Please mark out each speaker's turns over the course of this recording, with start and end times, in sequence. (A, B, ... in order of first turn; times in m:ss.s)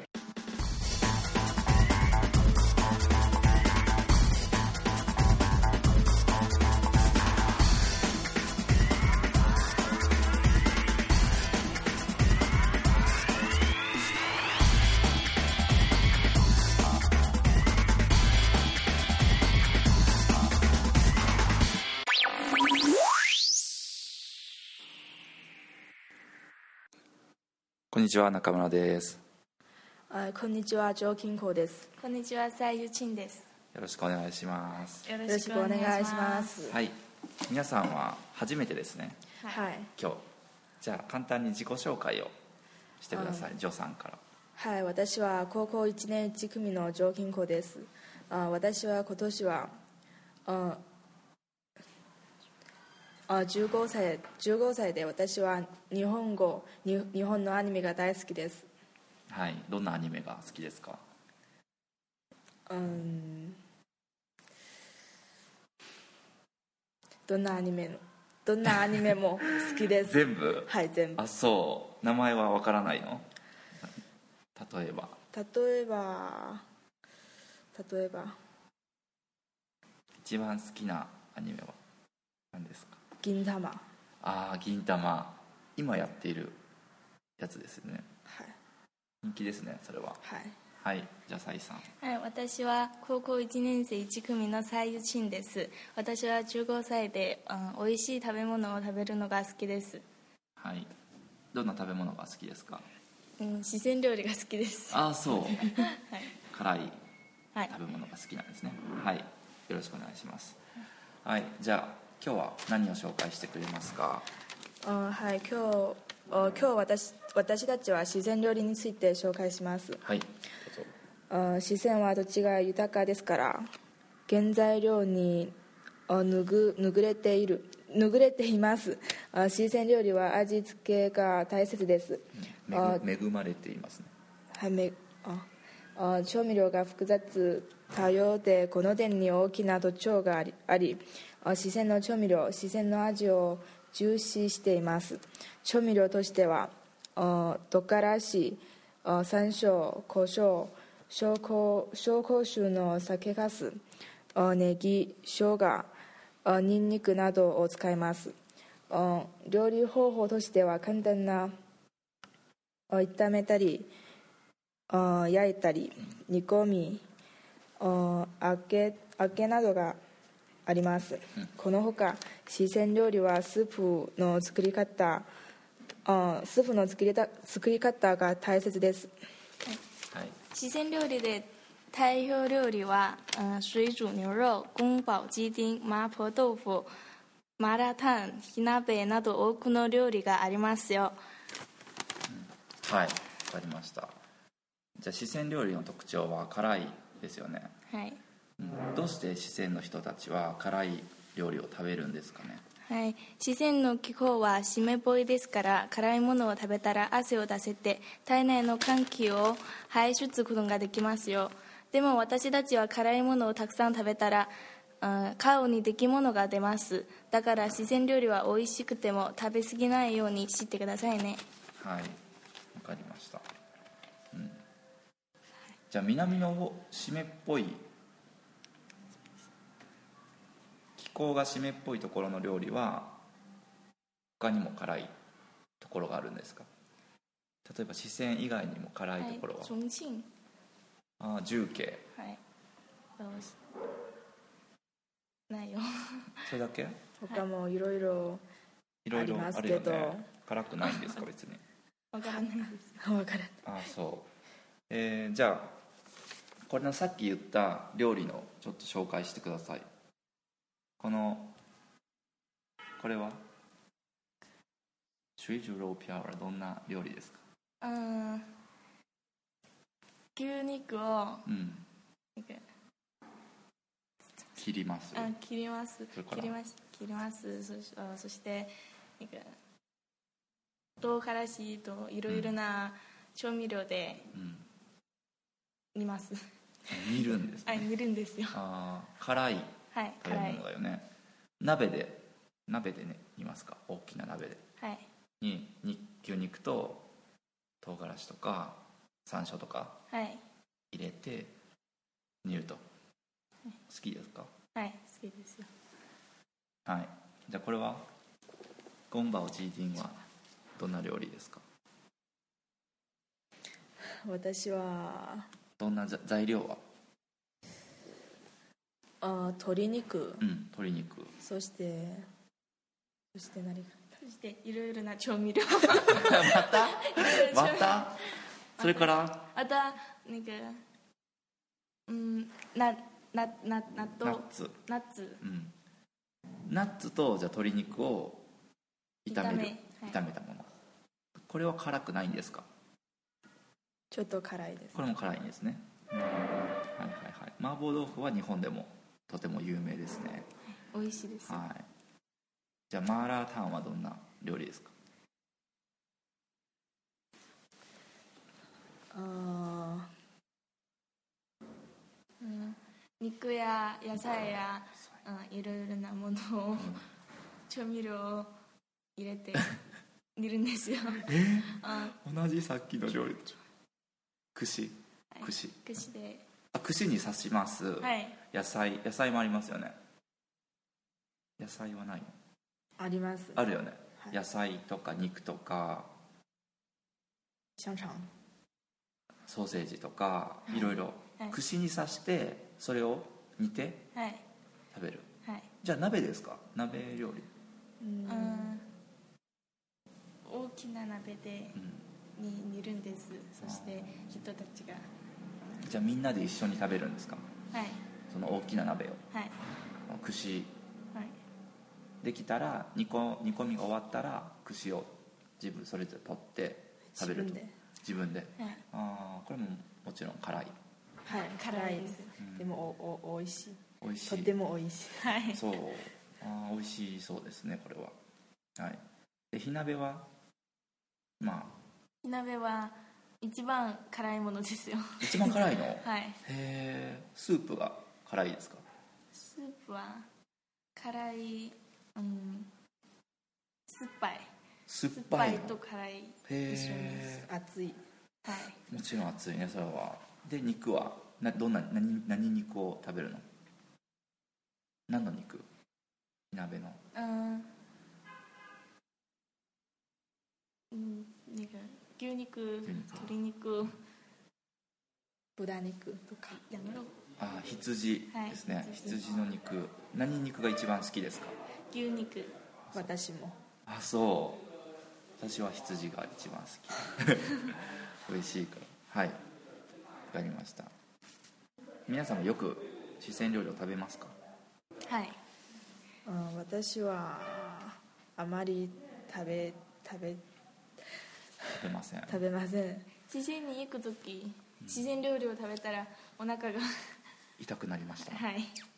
0:27.9-0:29.2 A
0:30.1-0:31.9 B
0:32.0-0:33.4 C
0:33.7-0:35.1 A
0:35.0-0:36.6 C
0:35.3-0:36.8 B
0:36.6-0:39.3 A
0:39.5-0:39.9 B
0:40.0-0:40.2 A
0:40.8-0:42.3 A
0:43.0-0:44.2 A
0:43.1-0:43.5 B
0:44.6-0:49.7 B
0:50.4-0:50.8 B
0:53.3-0:58.7 B
0:59.3-1:01.0 A
1:02.7-1:03.6 B
1:07.3-1:11.2 B
1:09.6-1:13.2 A
1:14.5-1:15.2 A
1:15.3-1:16.6 B
1:17.7-1:18.4 B
1:20.2-1:21.8 A
1:22.5-1:23.0 A
1:23.2-1:23.8 B
1:24.2-1:26.6 A
1:27.4-1:28.0 A
1:28.2-1:28.6 B
1:29.2-1:30.2 A
1:30.2-1:30.6 B
1:30.8-1:31.9 A
1:32.0-1:40.0 C
1:40.6-1:40.9 A
1:41.5-1:42.9 A
1:43.4-1:46.3 C
1:44.9-1:45.8 A
1:46.5-1:47.0 A
1:47.7-1:50.6 A
1:51.2-1:54.2 A
1:54.8-2:00.0 B
2:00.0-2:00.9 A
2:01.3-2:03.7 B
2:04.3-2:05.5 B
2:06.1-2:13.0 B
2:12.3-2:14.1 A
2:14.5-2:33.8 B
2:34.3-2:35.9 B
2:36.4-2:38.4 B
2:38.9-2:41.5 B
2:42.9-2:43.9 B
2:44.9-2:47.0 B
2:47.8-2:50.0 B
2:50.6-2:55.3 B
2:56.0-2:59.1 B
3:00.1-3:00.4 A
3:00.5-3:06.9 C
3:07.6-3:11.2 C
3:12.3-3:14.1 A
3:15.0-3:17.7 A
3:17.9-3:18.2 C
3:18.6-3:22.6 A
3:22.8-3:41.4 C
3:41.8-3:42.2 A
3:42.7-3:43.4 A
3:44.3-3:44.6 A
3:45.9-3:47.8 A
3:51.0-3:53.2 A
3:54.4-3:55.1 A
3:55.8-3:56.7 A
3:57.6-3:59.7 A
3:59.2-4:00.3 C
4:01.2-4:02.0 A
4:02.1-4:02.4 C
4:03.2-4:03.6 C
4:05.5-4:06.5 C
4:06.4-4:07.0 A
4:07.2-4:08.4 B
4:09.0-4:11.6 A
4:09.1-4:10.3 B
4:10.8-4:11.2 C
4:12.1-4:13.0 C
4:13.0-4:13.6 B
4:13.6-4:14.3 A
4:14.9-4:15.8 A
4:16.7-4:19.8 A
4:21.0-4:21.5 A
4:23.0-4:23.4 A
4:25.4-4:27.4 A
4:27.8-4:28.5 C
4:30.3-4:31.5 C
4:31.4-4:31.8 A
4:32.4-4:32.6 C
4:34.6-4:35.3 A
4:35.1-4:39.6 C
4:36.1-4:36.6 A
4:41.0-4:44.3 C
4:42.3-4:42.5 A
4:44.3-4:44.6 A
4:45.9-4:48.6 C
4:46.9-4:47.9 A
4:48.5-4:51.1 A
4:49.9-4:50.6 C
4:51.6-4:54.6 A
4:54.8-4:55.0 C
4:55.4-4:57.1 A
4:57.8-5:00.0 A
5:00.1-5:00.4 C
5:00.9-5:01.5 A
5:02.4-5:02.8 A
5:03.9-5:04.5 A
5:04.7-5:05.7 C
5:06.8-5:08.1 A
5:09.1-5:10.2 A
5:10.8-5:11.6 A
5:14.2-5:15.5 B
5:15.8-5:16.8 A
5:19.2-5:20.4 B
5:20.4-5:21.4 A
5:21.4-5:22.3 B
5:23.3-5:24.0 B
5:24.2-5:30.8 C
5:26.0-5:28.2 A
5:28.8-5:29.4 A
5:32.1-5:35.4 C
5:34.2-5:34.8 A
5:35.4-5:35.7 A
5:36.7-5:38.4 A
5:39.2-5:40.2 C
5:39.3-5:40.7 A
5:41.4-5:42.6 A
5:44.1-5:45.0 B
5:44.9-5:50.5 A
5:50.7-5:51.6 C
5:51.4-5:51.9 A
5:52.9-5:54.9 A
5:59.1-6:00.1 B
6:02.4-6:07.0 C
6:06.8-6:07.1 A
6:07.7-6:08.5 C
6:09.2-6:09.8 C
6:10.4-6:12.2 C
6:11.2-6:13.6 A
6:14.5-6:16.0 A
6:15.3-6:16.4 C
6:16.7-6:20.0 A
6:18.0-6:18.4 C
6:21.6-6:22.3 A
6:23.0-6:23.6 B
6:23.5-6:26.1 A
6:27.8-6:28.3 B
6:29.5-6:34.1 A
6:30.7-6:31.6 C
6:34.1-6:34.4 C
6:34.9-6:35.3 A
6:35.8-6:37.5 A
6:38.0-6:38.7 B
6:38.3-6:38.9 C
6:40.4-6:41.8 C
6:41.7-6:42.0 A
6:42.4-6:45.1 C
6:43.6-6:44.2 A
6:45.8-6:47.4 A
6:47.7-6:48.0 C
6:48.3-6:49.2 A
6:49.3-6:49.6 C
6:50.1-6:50.7 A
6:52.2-7:00.7 A
6:57.2-6:57.7 B
7:01.2-7:05.3 B
7:01.3-7:02.3 C
7:02.4-7:02.7 A
7:04.0-7:04.5 A
7:05.2-7:05.6 C
7:05.5-7:08.1 A
7:08.8-7:10.3 A
7:11.4-7:11.7 A
7:12.2-7:16.4 C
7:15.2-7:18.8 A
7:19.3-7:20.3 C
7:21.0-7:22.7 C
7:23.9-7:24.5 C
7:24.9-7:25.8 A
7:25.1-7:27.4 C
7:26.5-7:27.5 A
7:27.3-7:28.0 B
7:28.4-7:28.8 C
7:28.9-7:33.4 A
7:35.1-7:35.7 A
7:36.5-7:37.0 A
7:37.1-7:37.7 C
7:40.9-7:44.0 C
7:42.8-7:43.3 A
7:45.6-7:46.6 B
7:46.6-7:47.1 C
7:47.4-7:51.5 A
7:48.3-7:49.2 C
7:51.9-7:52.5 C
7:52.9-7:53.6 B
7:53.9-7:54.6 A
7:55.4-7:59.4 A
8:00.3-8:00.9 A
8:02.1-8:04.3 A
8:05.0-8:05.4 C
8:06.2-8:10.4 B
8:11.7-8:12.4 A
8:12.3-8:13.1 B
8:13.3-8:17.1 C
8:14.8-8:15.1 A
8:17.6-8:18.4 A
8:18.2-8:18.8 C